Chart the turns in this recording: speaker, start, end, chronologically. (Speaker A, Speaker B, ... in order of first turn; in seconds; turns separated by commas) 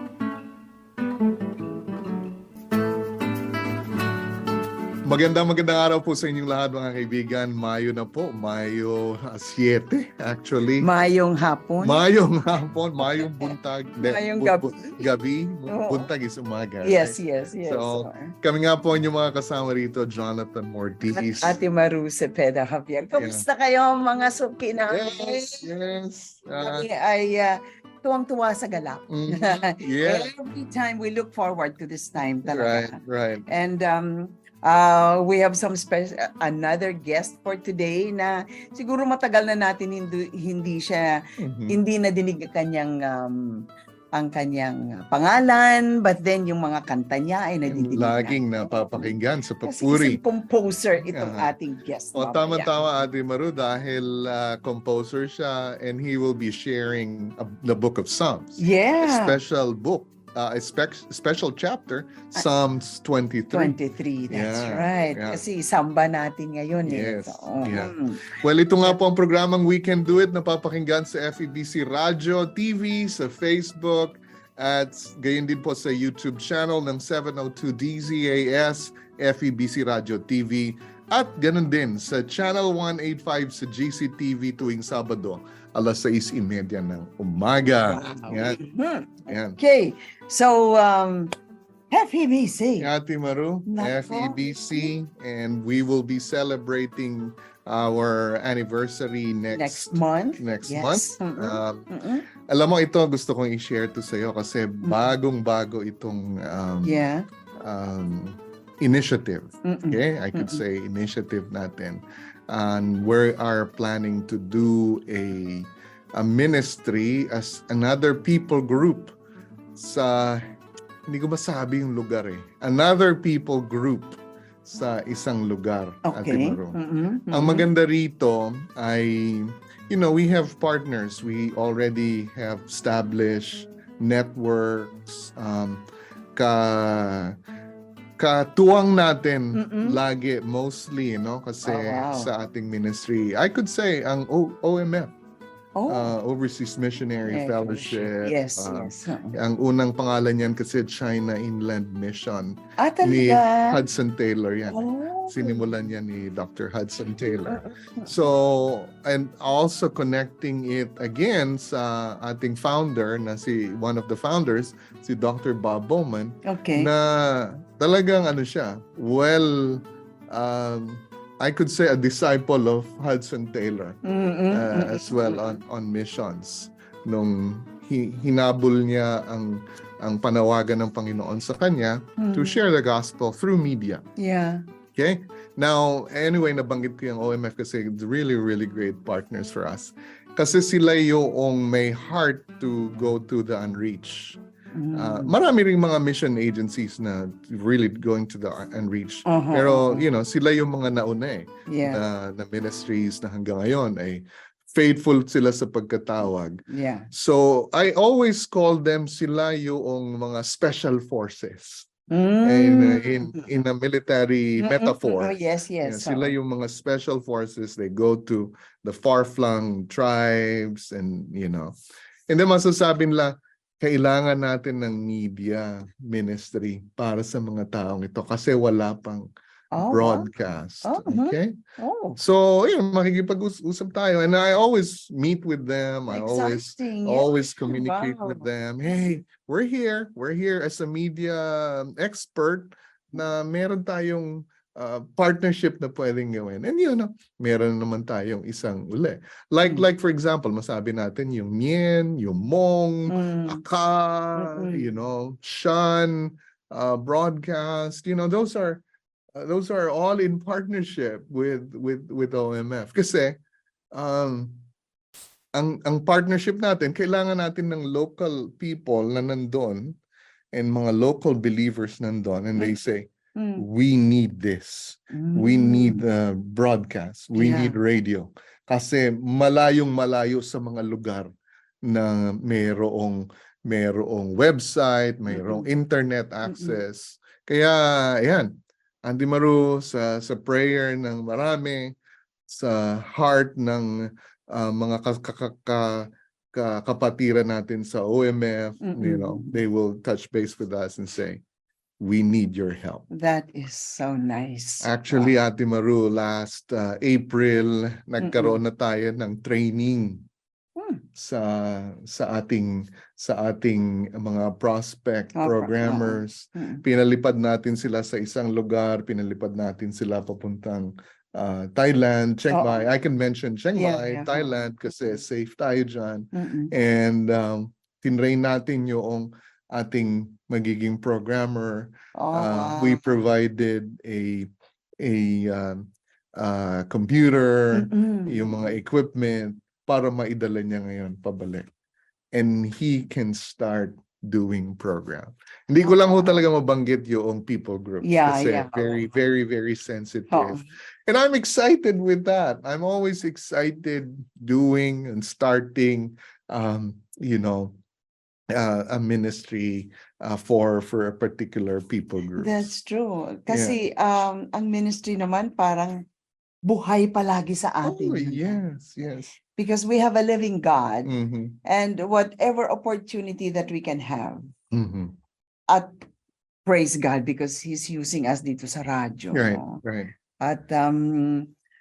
Speaker A: 5.0-10.9, Speaker B: 10.8-12.0, Speaker A: 11.8-21.6, Speaker B: 13.1-15.0, Speaker B: 15.7-16.1, Speaker B: 16.8-18.4, Speaker B: 21.1-25.6, Speaker A: 23.2-23.5, Speaker A: 24.9-26.9, Speaker B: 26.6-41.1, Speaker A: 29.1-30.3, Speaker A: 32.5-33.5, Speaker A: 41.4-41.8, Speaker B: 41.7-43.5, Speaker B: 44.1-52.7, Speaker A: 47.7-50.2, Speaker A: 51.1-51.5, Speaker A: 52.1-63.8, Speaker B: 58.6-59.4, Speaker B: 63.5-68.3, Speaker A: 64.3-65.4, Speaker A: 66.9-88.6, Speaker B: 87.9-91.3, Speaker A: 89.3-89.6, Speaker B: 91.9-92.9, Speaker A: 92.8-101.9, Speaker B: 93.7-94.9, Speaker B: 99.5-102.3, Speaker A: 102.5-107.0, Speaker B: 104.8-105.1, Speaker B: 106.8-107.2, Speaker A: 107.6-119.2, Speaker B: 109.7-110.6, Speaker A: 119.8-120.5, Speaker A: 121.1-126.8, Speaker B: 126.0-127.7, Speaker A: 127.3-137.4, Speaker A: 138.2-145.1, Speaker B: 139.5-140.0, Speaker B: 141.6-142.3, Speaker B: 145.8-146.2, Speaker A: 145.9-174.0, Speaker B: 147.3-149.4, Speaker B: 152.8-153.8, Speaker B: 154.7-155.7, Speaker B: 157.5-158.1, Speaker B: 166.4-166.9, Speaker B: 174.0-175.6, Speaker A: 174.5-184.0, Speaker B: 182.2-182.5, Speaker B: 184.2-184.6, Speaker A: 184.9-194.4, Speaker B: 194.7-195.3, Speaker A: 194.9-206.6, Speaker B: 199.3-200.1, Speaker B: 201.7-202.0, Speaker B: 206.7-207.1, Speaker A: 207.1-211.9, Speaker B: 212.1-213.4, Speaker A: 212.4-221.8, Speaker B: 214.6-216.3, Speaker A: 222.3-231.6, Speaker B: 229.7-230.3, Speaker B: 230.8-232.2, Speaker A: 232.2-258.8, Speaker B: 236.1-238.5, Speaker B: 253.1-253.6, Speaker B: 254.3-254.8, Speaker A: 259.3-263.4, Speaker A: 263.9-264.6, Speaker A: 265.6-270.0, Speaker A: 270.5-281.3, Speaker B: 273.4-273.6, Speaker B: 275.1-276.0, Speaker B: 277.4-277.8, Speaker A: 281.9-288.5, Speaker B: 285.3-285.7, Speaker B: 286.5-286.8, Speaker A: 289.0-291.9, Speaker A: 292.5-301.4, Speaker B: 298.8-299.6, Speaker A: 302.0-303.1, Speaker B: 303.1-305.3, Speaker A: 304.8-310.3, Speaker B: 308.2-308.6, Speaker B: 310.8-311.0, Speaker A: 311.2-334.5, Speaker B: 315.4-316.8, Speaker B: 322.5-322.9, Speaker B: 323.8-324.5, Speaker B: 326.3-326.7, Speaker B: 332.1-333.2, Speaker A: 335.0-341.7, Speaker B: 337.7-338.8, Speaker A: 342.3-357.8, Speaker B: 345.8-346.4, Speaker B: 348.0-349.2, Speaker B: 350.3-350.7, Speaker A: 358.5-362.7, Speaker B: 362.4-366.1, Speaker A: 363.5-363.8, Speaker B: 366.6-368.6, Speaker A: 367.8-369.4, Speaker B: 369.6-371.1, Speaker A: 371.1-371.6, Speaker B: 371.6-374.5, Speaker A: 374.7-375.2, Speaker B: 375.7-376.0, Speaker B: 376.6-379.8, Speaker A: 379.3-380.1, Speaker B: 380.4-381.5